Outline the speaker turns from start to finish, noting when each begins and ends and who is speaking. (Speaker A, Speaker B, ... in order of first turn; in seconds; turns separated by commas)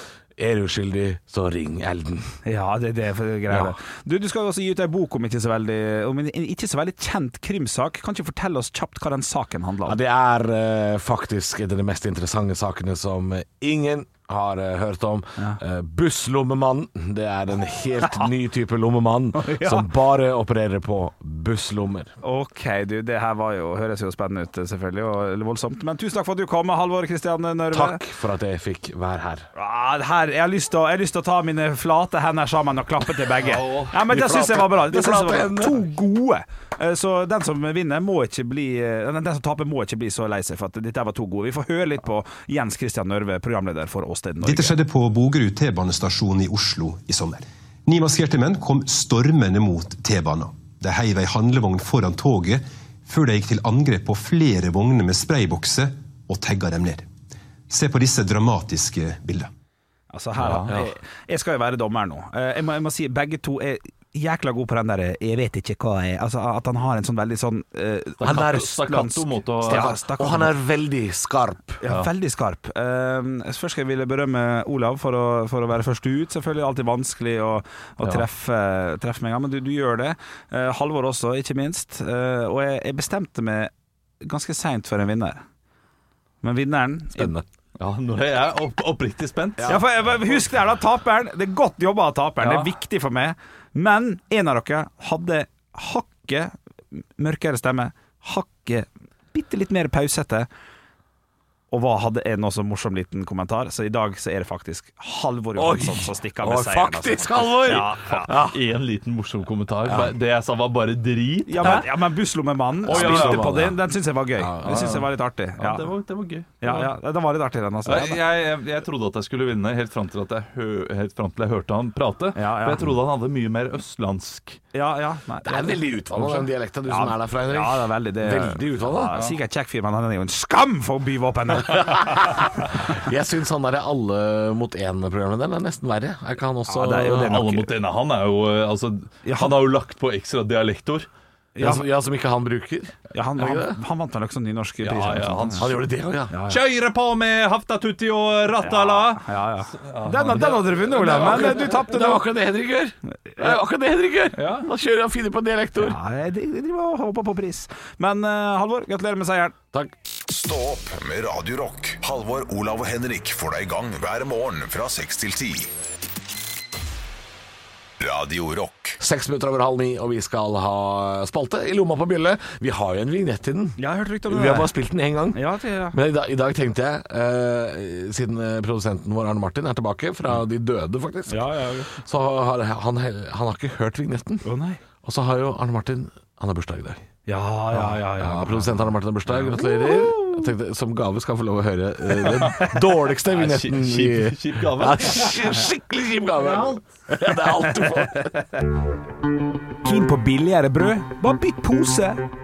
Speaker A: 0.4-2.4, Speaker B: 2.5-10.0, Speaker A: 9.8-22.1, Speaker B: 19.4-19.9, Speaker B: 22.2-28.0, Speaker A: 27.7-29.5, Speaker B: 29.6-44.8, Speaker C: 33.4-33.9, Speaker A: 34.1-35.8, Speaker D: 44.4-57.1, Speaker D: 57.7-59.5, Speaker B: 60.1-70.5, Speaker C: 60.4-60.7, Speaker C: 68.2-70.0, Speaker A: 68.2-68.7, Speaker A: 69.6-71.8, Speaker B: 71.8-83.7, Speaker B: 84.2-85.4, Speaker B: 86.4-87.3, Speaker A: 87.2-87.5, Speaker C: 87.8-89.8, Speaker B: 89.7-96.5, Speaker C: 92.4-92.7, Speaker B: 97.2-100.5, Speaker B: 101.7-108.3, Speaker A: 105.6-108.6, Speaker C: 107.6-111.9, Speaker B: 111.5-115.9, Speaker A: 112.8-113.8, Speaker C: 112.9-113.6, Speaker A: 114.4-115.0, Speaker C: 114.7-115.0, Speaker C: 115.6-116.9, Speaker B: 116.6-118.2, Speaker C: 117.9-124.6, Speaker B: 122.4-122.9, Speaker B: 124.7-132.4, Speaker A: 125.5-129.2, Speaker A: 131.7-137.4, Speaker B: 136.7-137.7, Speaker C: 137.2-141.1, Speaker B: 139.2-139.6, Speaker B: 141.6-141.8, Speaker A: 141.6-143.8, Speaker B: 143.1-145.7, Speaker C: 144.8-145.9, Speaker A: 145.6-146.3, Speaker B: 146.3-146.6, Speaker C: 146.5-150.8, Speaker B: 148.6-152.3, Speaker A: 150.7-156.0, Speaker C: 154.3-154.7, Speaker B: 155.8-159.5, Speaker E: 160.3-165.7, Speaker E: 168.0-169.0, Speaker A: 169.0-184.4, Speaker B: 173.8-174.7, Speaker B: 175.3-176.0, Speaker B: 181.3-181.9, Speaker B: 184.4-184.8, Speaker A: 185.0-187.1, Speaker B: 187.3-190.5, Speaker A: 187.7-198.3, Speaker C: 192.3-192.7, Speaker C: 193.3-195.6, Speaker B: 197.6-198.6, Speaker B: 199.8-202.2